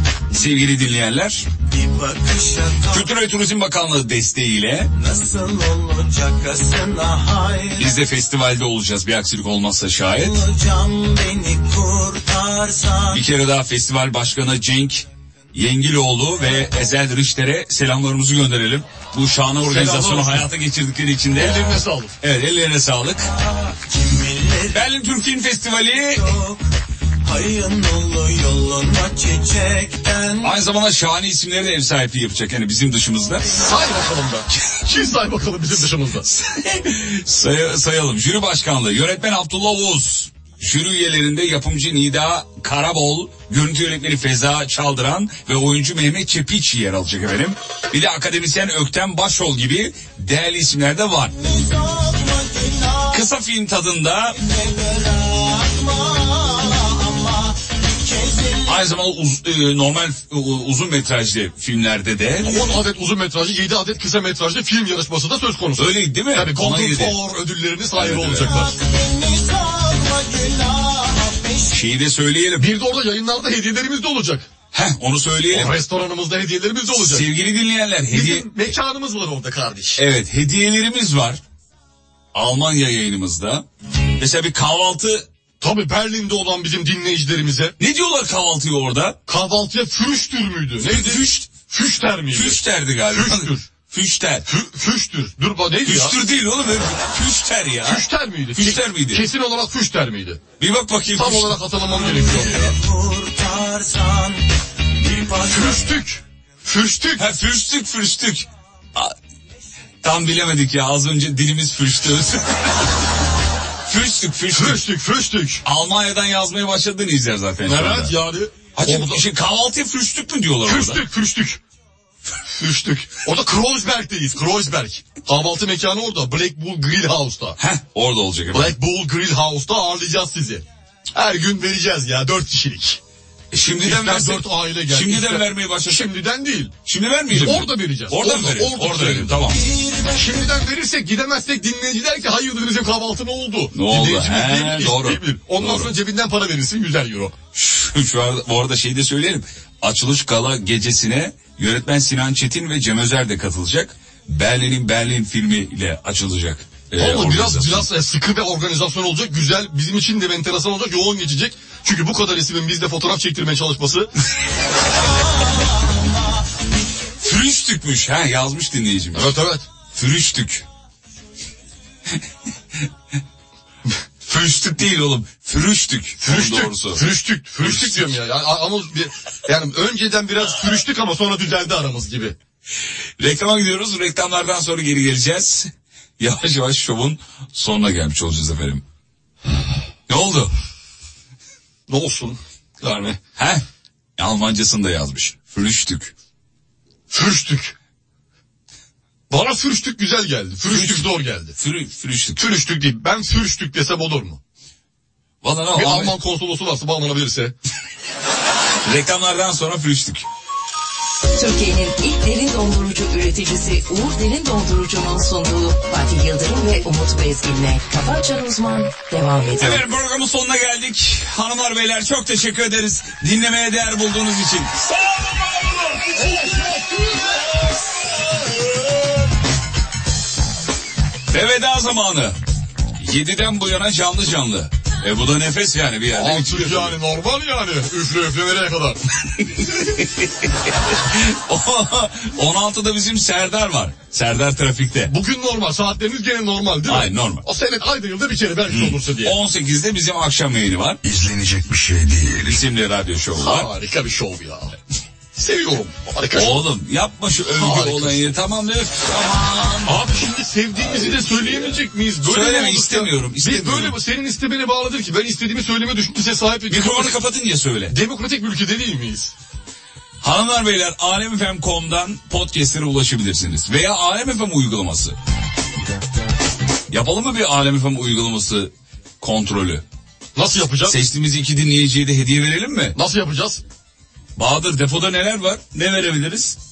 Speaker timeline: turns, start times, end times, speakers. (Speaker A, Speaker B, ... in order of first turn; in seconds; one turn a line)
Speaker A: 0.3-1.5
Speaker B: 1.6-3.1
Speaker A: 2.9-4.9
Speaker B: 4.9-7.9
Speaker A: 7.8-10.4
Speaker B: 10.1-13.2
Speaker A: 13.1-23.3
Speaker C: 19.6-20.5
Speaker C: 21.3-22.1
Speaker B: 23.3-24.9
Speaker A: 24.7-26.4
Speaker B: 26.0-26.6
Speaker B: 27.2-30.5
Speaker A: 30.4-33.6
Speaker C: 33.5-36.2
Speaker A: 36.2-51.3
Speaker B: 51.4-53.2
Speaker A: 53.1-54.4
Speaker B: 54.4-58.8
Speaker A: 58.6-62.6
Speaker C: 62.4-68.7
Speaker A: 65.8-67.2
Speaker A: 67.9-68.6
Speaker B: 68.5-71.7
Speaker A: 71.7-72.7
Speaker C: 72.5-74.5
Speaker A: 74.7-75.7
Speaker C: 75.5-77.3
Speaker A: 77.0-78.5
Speaker C: 78.1-80.0
Speaker A: 80.0-81.4
Speaker A: 82.3-83.6
Speaker A: 84.2-85.3
Speaker C: 85.6-87.7
Speaker A: 87.8-89.2
Speaker C: 89.2-93.7
Speaker A: 90.8-91.5
Speaker A: 92.3-94.5
Speaker C: 94.5-96.2
Speaker A: 95.8-99.2
Speaker C: 97.8-100.4
Speaker A: 100.6-101.6
Speaker C: 101.1-102.8
Speaker B: 102.0-106.0
Speaker C: 105.5-107.2
Speaker A: 107.2-109.1
Speaker A: 110.0-112.8
Speaker A: 113.9-114.8
Speaker C: 114.5-115.6
Speaker A: 115.6-118.2
Speaker C: 117.6-119.2
Speaker A: 118.7-121.0
Speaker C: 120.6-121.6
Speaker C: 122.5-127.6
Speaker A: 127.6-128.8
Speaker C: 128.5-133.0
Speaker A: 133.5-136.1
Speaker C: 133.8-136.8
Speaker A: 136.8-139.6
Speaker C: 137.3-139.5
Speaker B: 139.7-140.2
Speaker C: 140.1-147.3
Speaker A: 143.7-145.9
Speaker A: 147.5-157.9
Speaker C: 156.9-164.1
Speaker B: 165.3-166.0
Speaker A: 167.2-169.4
Speaker C: 169.1-169.7
Speaker A: 169.9-170.6
Speaker A: 174.2-177.0
Speaker C: 176.2-182.3
Speaker A: 177.6-178.1
Speaker A: 183.2-188.8
Speaker A: 190.1-190.5
Speaker C: 191.9-193.2
Speaker A: 193.4-193.6
Speaker A: 194.2-196.1
Speaker C: 197.1-197.7
Speaker C: 199.3-201.6
Speaker A: 200.7-202.4
Speaker C: 202.3-204.4
Speaker A: 205.4-206.1
Speaker C: 205.7-207.5
Speaker A: 208.8-210.2
Speaker D: 211.3-219.8
Speaker A: 219.6-226.6
Speaker C: 226.2-227.5
Speaker A: 231.3-232.3
Speaker A: 233.0-236.9
Speaker C: 236.1-239.0
Speaker A: 239.5-245.1
Speaker C: 245.1-249.3
Speaker A: 246.9-247.4
Speaker A: 248.7-253.7
Speaker C: 253.3-254.7
Speaker C: 255.3-256.6
Speaker A: 256.3-260.0
Speaker C: 257.5-258.3
Speaker C: 259.8-267.2
Speaker A: 260.8-263.9
Speaker A: 266.7-267.9
Speaker C: 267.9-269.3
Speaker A: 270.2-275.1
Speaker A: 276.9-279.8
Speaker C: 280.3-280.9
Speaker A: 280.9-282.9
Speaker C: 282.9-283.6
Speaker A: 284.4-286.6